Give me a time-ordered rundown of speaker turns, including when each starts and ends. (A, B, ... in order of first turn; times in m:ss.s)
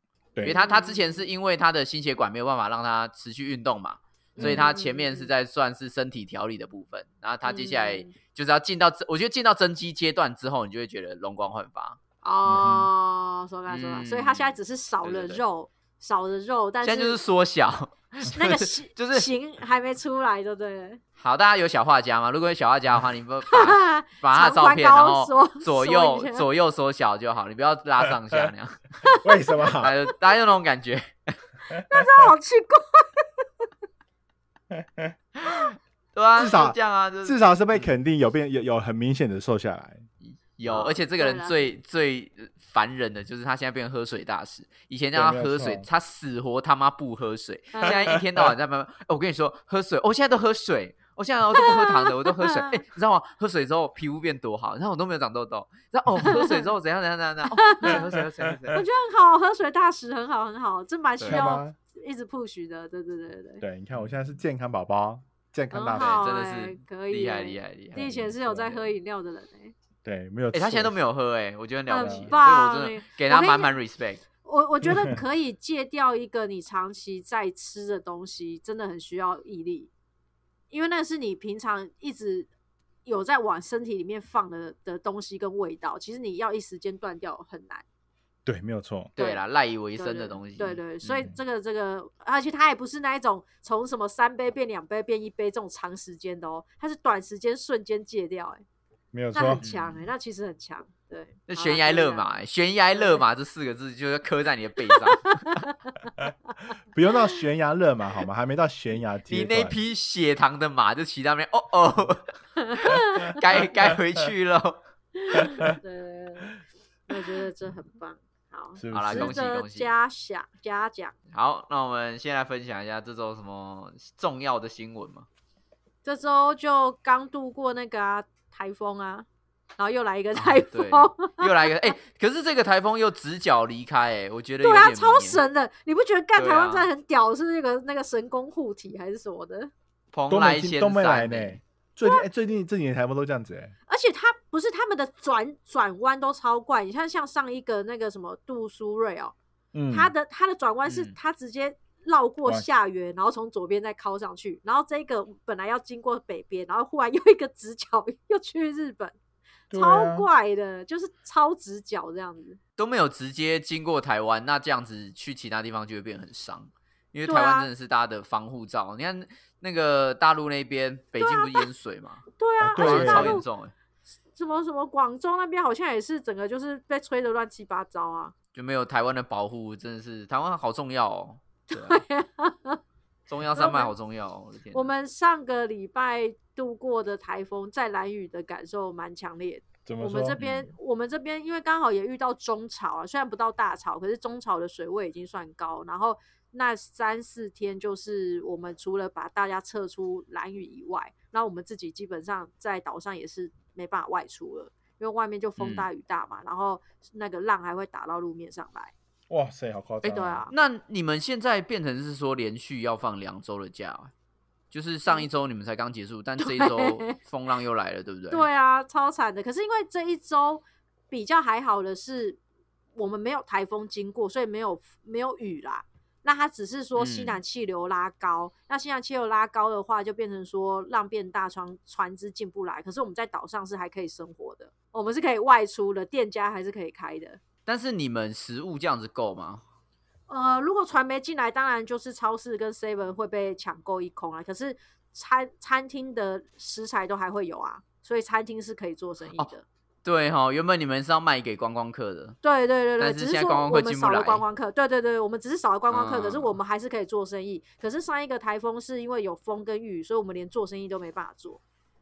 0:00.4-0:12.0 A
0:00.5-0:01.2 B
0:04.4-0:05.3 B
0:04.4-0:04.6 C
0:07.4-0:08.1 B
0:12.2-0:17.2 B
0:12.5-0:12.9 C
0:13.7-0:15.4 A
0:16.8-0:19.3 A
0:18.2-0:21.0 B
0:21.2-0:29.0 A
0:23.5-0:26.5 B
0:29.2-0:29.9 C
0:29.8-0:31.4 A
0:31.8-0:33.4 B
0:34.7-0:35.1 C
0:35.4-0:37.9 A
0:36.4-0:40.1 C
0:40.2-0:58.8 A
0:40.7-0:41.7 B
0:45.1-0:45.9 C
0:47.8-0:48.2 B
0:47.8-0:48.5 C
0:51.6-0:52.6 B
0:56.3-0:56.6 B
0:57.6-0:58.0 B
0:57.9-0:58.6 C
0:58.7-1:03.6 B
1:01.2-1:01.5 A
1:01.3-1:01.8 C
1:03.6-1:06.3 C
1:05.7-1:09.7 B
1:05.9-1:08.1 A
1:08.0-1:08.9 C
1:10.0-1:11.0 C
1:10.5-1:14.2 A
1:11.9-1:13.7 B
1:12.0-1:12.3 C
1:14.4-1:19.9 B
1:20.7-1:22.5 B
1:23.0-1:27.8 B
1:28.5-1:29.1 C
1:29.2-1:31.0 A
1:30.0-1:38.6 B
1:39.1-1:39.6 C
1:39.3-1:42.4 B
1:39.6-1:40.1 A
1:41.5-1:45.6 A
1:43.0-1:43.2 B
1:44.9-1:45.6 B
1:46.9-1:49.8 C
1:49.3-1:54.8 A
1:52.6-1:53.3 B
1:55.2-1:56.5 B
1:57.1-2:01.2 B
1:58.8-1:59.4 C
1:58.9-1:59.9 A
2:01.3-2:05.3 A
2:06.0-2:09.3 B
2:09.8-2:11.5 B
2:10.4-2:15.4 A
2:14.6-2:19.7 B
2:16.4-2:16.9 A
2:20.1-2:21.6 A
2:20.3-2:23.7 C
2:23.9-2:29.3 B
2:29.7-2:30.1 C
2:29.9-2:39.2 B
2:30.9-2:31.1 A
2:39.7-2:40.3 C
2:39.7-2:42.6 B
2:42.8-2:52.2 A
2:47.3-2:47.7 B
2:51.2-2:51.6 B
2:52.4-2:53.4 B
2:52.6-2:53.4 C
2:52.8-2:53.7 A
2:54.3-2:58.3 B
2:58.6-3:02.0 A
3:01.7-3:02.8 B
3:03.3-3:04.9 A
3:03.6-3:03.9 B
3:04.7-3:28.9 B
3:09.9-3:10.7 C
3:25.6-3:25.8 A
3:29.3-3:30.4 C
3:30.0-3:30.5 B
3:30.5-3:34.1 A
3:34.7-3:38.4 A
3:36.4-3:37.2 B
3:38.3-3:42.4 B
3:43.0-3:57.4 B
3:47.0-3:47.4 A
3:57.7-3:59.6 A
4:00.3-4:09.6 B
4:10.0-4:12.4 A
4:12.4-4:21.6 B
4:13.0-4:14.4 A
4:15.9-4:16.6 A